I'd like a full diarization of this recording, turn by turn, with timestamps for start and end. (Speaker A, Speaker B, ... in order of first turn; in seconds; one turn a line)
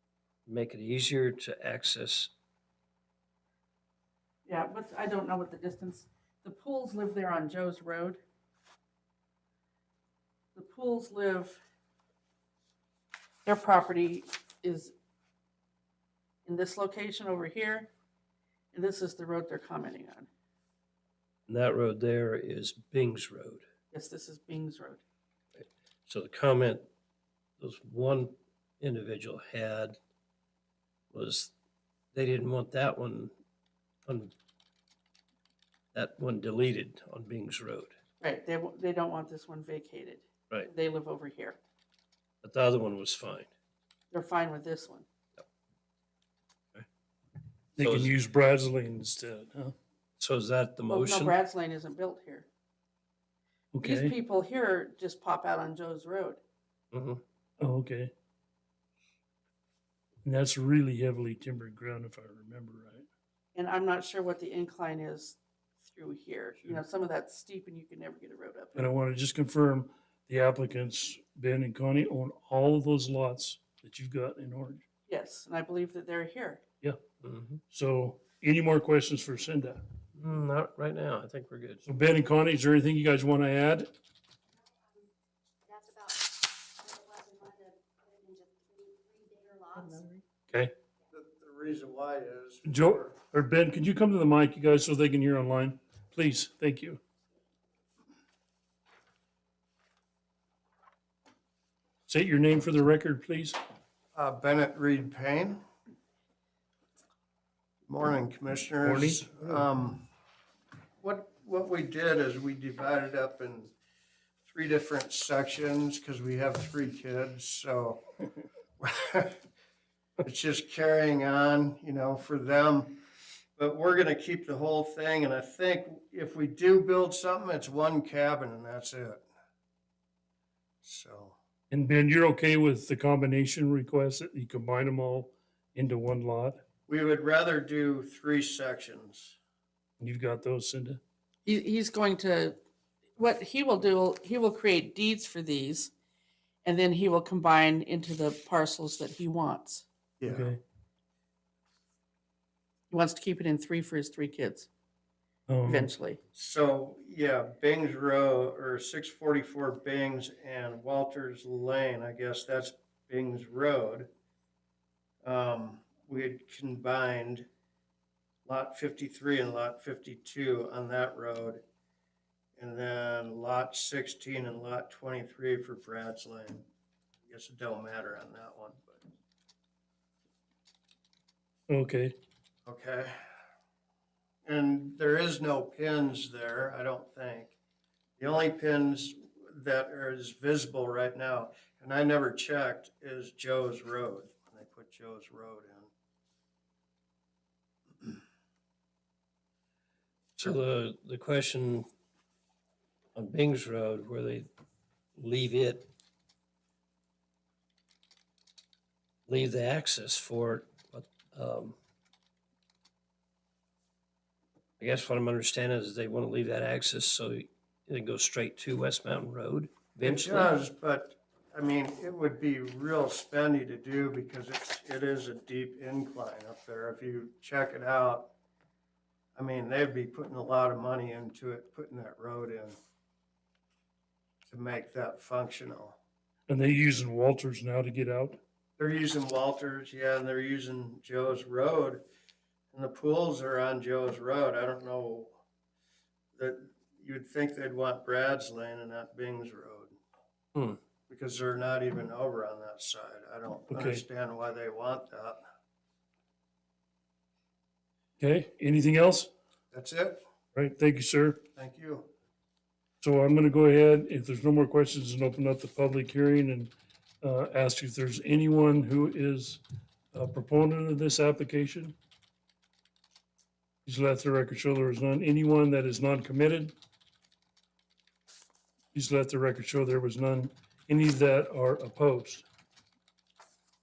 Speaker A: 0.5-2.3
Speaker B: 4.5-8.2
Speaker B: 10.5-11.6
Speaker B: 13.5-14.9
Speaker B: 16.4-17.9
Speaker B: 18.7-20.3
Speaker A: 21.5-23.6
Speaker B: 23.9-25.0
Speaker A: 25.6-26.9
Speaker A: 27.6-30.0
Speaker A: 31.1-31.5
Speaker A: 32.1-33.3
Speaker A: 34.1-34.3
Speaker A: 35.9-37.9
Speaker B: 38.2-41.6
Speaker A: 42.4-43.5
Speaker B: 44.1-45.0
Speaker C: 47.8-49.7
Speaker A: 47.8-48.1
Speaker A: 50.2-51.4
Speaker B: 50.9-52.5
Speaker C: 53.7-54.1
Speaker B: 53.8-56.4
Speaker A: 56.9-57.2
Speaker C: 57.6-58.1
Speaker C: 60.2-63.0
Speaker B: 63.5-68.8
Speaker C: 68.8-74.8
Speaker B: 75.1-76.6
Speaker A: 77.2-77.6
Speaker C: 77.7-79.8
Speaker A: 80.1-81.8
Speaker C: 81.9-83.9
Speaker D: 85.7-90.1
Speaker B: 89.9-90.1
Speaker E: 91.1-93.1
Speaker C: 92.7-97.0
Speaker C: 102.1-103.6
Speaker E: 104.2-105.6
Speaker E: 107.9-110.1
Speaker C: 108.8-109.6
Speaker E: 111.0-113.7
Speaker E: 114.5-118.1
Speaker E: 118.8-119.4
Speaker E: 120.2-123.0
Speaker E: 123.6-129.2
Speaker E: 130.8-131.4
Speaker C: 131.7-136.6
Speaker E: 136.9-139.4
Speaker C: 140.0-141.0
Speaker B: 141.4-142.6
Speaker B: 143.2-145.9
Speaker B: 146.6-149.8
Speaker E: 150.2-150.5
Speaker C: 150.3-150.6
Speaker B: 152.9-154.7
Speaker C: 155.5-155.9
Speaker B: 155.7-156.2
Speaker E: 156.3-164.1
Speaker E: 165.2-167.5
Speaker E: 168.4-171.6
Speaker E: 172.6-176.7
Speaker E: 177.2-179.0
Speaker C: 181.7-182.1
Speaker E: 182.7-183.2
Speaker E: 184.4-187.5
Speaker E: 188.2-195.9
Speaker A: 200.4-201.9
Speaker A: 203.1-204.5
Speaker A: 205.2-205.9
Speaker A: 209.3-211.8
Speaker A: 214.8-220.5
Speaker E: 220.0-228.3
Speaker E: 229.3-232.8
Speaker E: 234.5-236.0
Speaker C: 236.5-238.4
Speaker E: 238.8-242.0
Speaker E: 242.7-245.4
Speaker E: 246.3-249.9
Speaker E: 251.1-255.4
Speaker C: 253.7-254.0
Speaker C: 258.2-259.3
Speaker E: 259.7-260.2
Speaker C: 260.6-261.4
Speaker E: 261.6-262.1
Speaker C: 263.0-269.6
Speaker C: 270.1-271.9
Speaker C: 273.8-276.8
Speaker C: 278.9-282.4